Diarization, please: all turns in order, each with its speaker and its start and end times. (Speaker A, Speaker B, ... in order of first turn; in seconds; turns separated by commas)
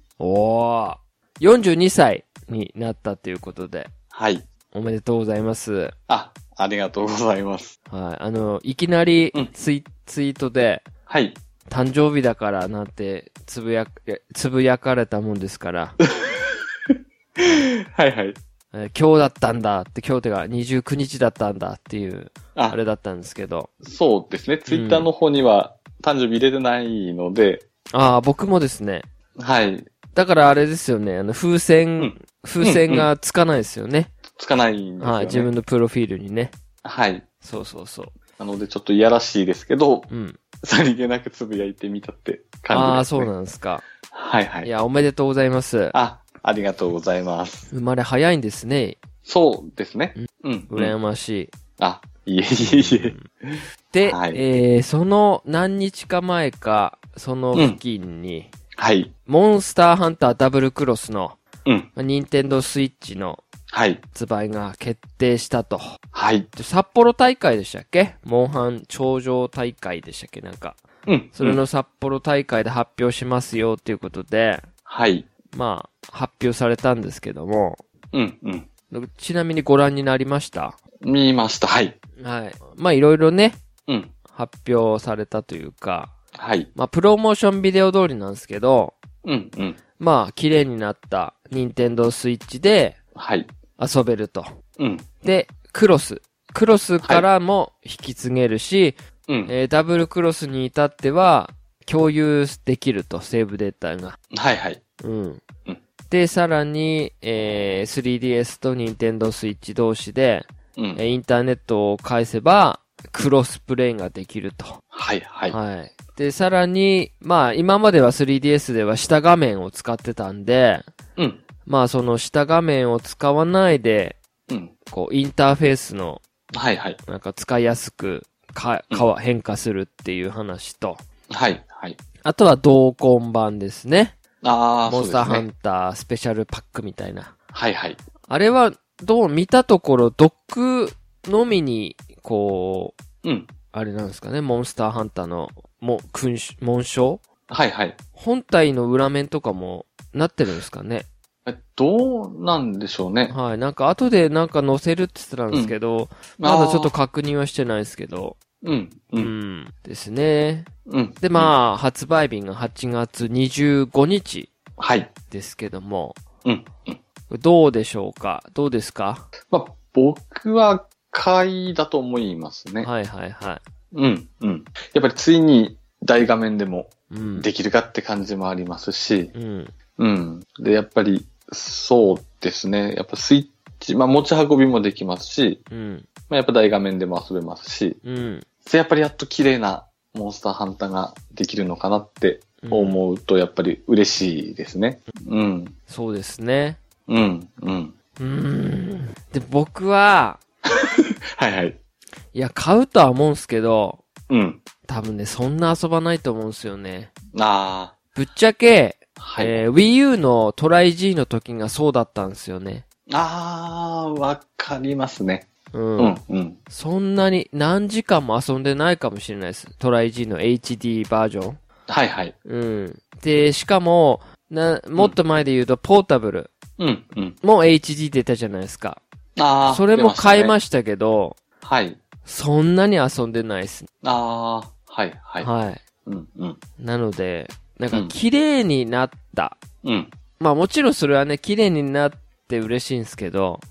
Speaker A: 0.2-3.9, Speaker B: 4.1-4.5, Speaker A: 4.7-5.9, Speaker B: 6.1-7.8, Speaker A: 7.9-10.8, Speaker B: 11.1-11.4, Speaker A: 11.7-16.0, Speaker B: 16.2-18.4, Speaker A: 18.7-23.7, Speaker B: 23.8-27.6, Speaker A: 24.7-25.1, Speaker A: 27.9-29.1, Speaker B: 29.4-29.9, Speaker A: 30.1-34.1, Speaker B: 32.0-33.1, Speaker B: 34.3-35.5, Speaker A: 35.0-36.5, Speaker B: 36.9-37.2, Speaker A: 37.4-38.1, Speaker B: 38.4-40.1, Speaker A: 40.1-40.4, Speaker B: 40.6-43.3, Speaker A: 42.7-43.8, Speaker B: 44.1-44.7, Speaker A: 44.6-46.0, Speaker B: 45.9-47.7, Speaker A: 47.7-49.0, Speaker B: 49.3-51.0, Speaker A: 50.2-51.5, Speaker B: 51.8-54.4, Speaker A: 52.5-53.3, Speaker A: 53.9-58.5, Speaker B: 57.5-57.8, Speaker B: 58.8-59.1, Speaker A: 59.3-61.4, Speaker A: 62.0-63.4, Speaker B: 63.7-64.0, Speaker A: 64.1-65.8, Speaker B: 66.1-66.5, Speaker A: 66.5-70.8, Speaker B: 71.1-71.6, Speaker A: 71.3-74.7, Speaker B: 74.9-75.3, Speaker A: 75.5-77.8, Speaker B: 78.1-78.7, Speaker A: 78.9-80.8, Speaker B: 81.0-82.0, Speaker A: 82.2-83.6, Speaker B: 83.9-84.1, Speaker A: 84.3-86.1, Speaker B: 86.4-86.7, Speaker A: 86.8-89.0, Speaker B: 89.2-89.8, Speaker A: 90.0-93.0, Speaker B: 93.2-93.5, Speaker A: 93.8-94.5, Speaker B: 94.8-95.1, Speaker A: 95.2-104.2, Speaker B: 99.3-99.5, Speaker B: 104.3-104.8, Speaker A: 105.0-105.4, Speaker A: 106.1-114.8, Speaker B: 110.8-111.0, Speaker B: 114.9-115.6, Speaker A: 115.5-120.9, Speaker A: 121.7-124.2, Speaker A: 124.9-126.2, Speaker B: 126.5-127.0, Speaker A: 127.1-131.0, Speaker B: 131.3-132.0, Speaker A: 132.2-134.2, Speaker B: 134.4-135.5, Speaker A: 134.9-137.3, Speaker B: 137.5-138.0, Speaker A: 138.3-143.0, Speaker B: 143.2-143.5, Speaker A: 143.7-147.2, Speaker B: 147.5-148.0, Speaker A: 148.2-151.1, Speaker B: 151.5-153.3, Speaker A: 153.3-158.4, Speaker B: 156.4-156.9, Speaker B: 158.6-159.3, Speaker A: 159.2-160.7, Speaker B: 160.9-161.5, Speaker A: 161.2-164.5, Speaker B: 164.8-165.1, Speaker A: 165.3-166.2, Speaker B: 166.4-167.0, Speaker A: 167.3-169.3, Speaker B: 169.5-172.9, Speaker A: 172.8-173.6, Speaker B: 173.9-179.3, Speaker A: 177.1-177.5, Speaker A: 179.3-179.7, Speaker B: 180.0-185.6, Speaker A: 185.7-186.1, Speaker B: 186.3-188.0, Speaker A: 188.0-188.5, Speaker B: 188.7-195.7, Speaker A: 192.6-193.0, Speaker A: 195.9-196.8, Speaker B: 197.1-197.9, Speaker A: 198.2-200.4, Speaker B: 201.4-201.8, Speaker A: 202.3-204.0, Speaker B: 204.3-204.6, Speaker A: 204.9-207.1, Speaker B: 207.3-208.0, Speaker A: 208.1-212.8, Speaker B: 209.2-209.6, Speaker B: 213.1-216.6, Speaker A: 215.7-216.2, Speaker A: 216.7-221.6, Speaker B: 221.9-222.3, Speaker A: 222.5-226.5, Speaker B: 226.8-227.4, Speaker A: 227.4-229.0, Speaker B: 229.4-230.5, Speaker A: 229.7-231.4, Speaker B: 231.6-232.0, Speaker A: 232.2-233.9, Speaker B: 234.0-235.5, Speaker A: 235.4-235.8, Speaker B: 236.1-236.6, Speaker A: 236.8-239.6, Speaker B: 239.8-240.1, Speaker A: 240.4-243.6